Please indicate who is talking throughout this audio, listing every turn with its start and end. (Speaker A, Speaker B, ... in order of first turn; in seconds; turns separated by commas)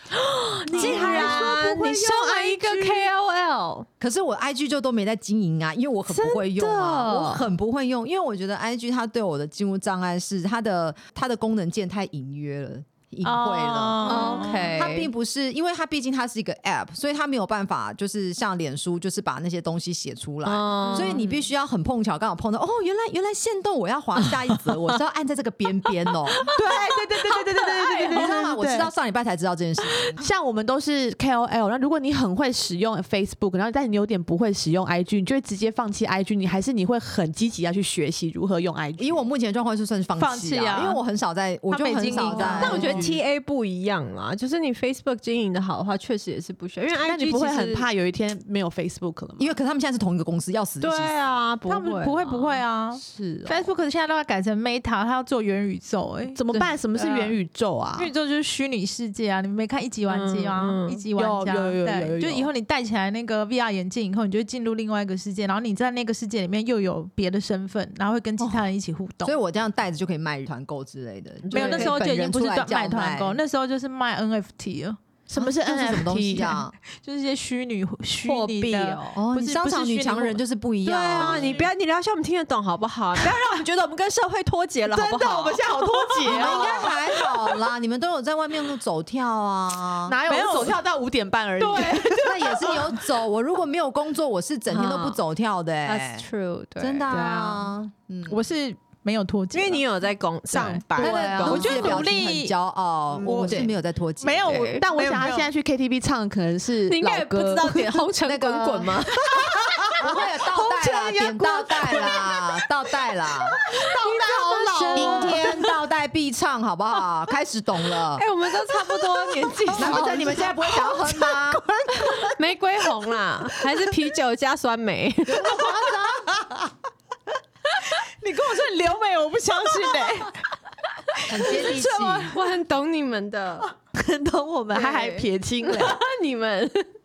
Speaker A: 0.1-3.9, Speaker B: 0.7-3.1, Speaker C: 0.8-1.4, Speaker D: 0.8-1.4, Speaker C: 4.0-30.2, Speaker A: 6.1-7.5, Speaker D: 13.2-14.7, Speaker A: 14.0-15.1, Speaker A: 20.4-21.3, Speaker B: 26.5-28.9, Speaker B: 30.2-39.2, Speaker C: 39.0-43.1, Speaker D: 40.1-41.0, Speaker D: 41.7-43.1, Speaker B: 42.4-43.1, Speaker A: 42.6-47.9, Speaker B: 46.9-49.5, Speaker C: 49.4-51.1, Speaker A: 50.8-53.7, Speaker D: 51.6-56.4, Speaker B: 56.3-58.1, Speaker D: 56.9-57.3, Speaker D: 58.0-69.3, Speaker A: 60.1-61.0, Speaker B: 61.1-62.5, Speaker C: 69.2-73.4, Speaker A: 71.4-72.0, Speaker D: 71.5-75.0, Speaker B: 75.3-76.6, Speaker C: 75.3-76.7, Speaker D: 77.0-80.4, Speaker A: 78.2-79.1, Speaker C: 79.1-81.6, Speaker A: 80.8-87.0, Speaker B: 81.2-81.7, Speaker B: 84.9-87.0, Speaker C: 86.3-90.7, Speaker B: 90.0-92.8, Speaker D: 90.3-90.7, Speaker A: 91.6-92.2, Speaker D: 91.7-92.0, Speaker C: 92.1-96.3, Speaker A: 94.7-95.2, Speaker A: 95.8-97.1, Speaker C: 96.8-98.4, Speaker B: 97.1-97.5, Speaker D: 98.3-99.8, Speaker A: 99.5-102.0, Speaker D: 100.5-102.5, Speaker C: 101.0-104.7, Speaker D: 103.2-105.5, Speaker A: 103.4-103.7, Speaker A: 104.4-104.8, Speaker B: 104.8-108.1, Speaker A: 106.9-110.2, Speaker C: 108.2-109.2, Speaker B: 109.3-112.4, Speaker C: 110.0-113.6, Speaker A: 111.8-112.2, Speaker A: 113.7-115.7, Speaker B: 114.0-115.3, Speaker C: 114.1-118.2, Speaker D: 114.8-115.2, Speaker A: 118.0-120.5, Speaker B: 119.7-122.3, Speaker C: 119.7-121.6, Speaker A: 122.0-125.7, Speaker B: 125.4-126.5, Speaker D: 125.5-126.0, Speaker D: 128.2-130.3, Speaker C: 131.3-132.3, Speaker A: 131.4-133.7, Speaker B: 133.9-136.0, Speaker A: 134.7-136.9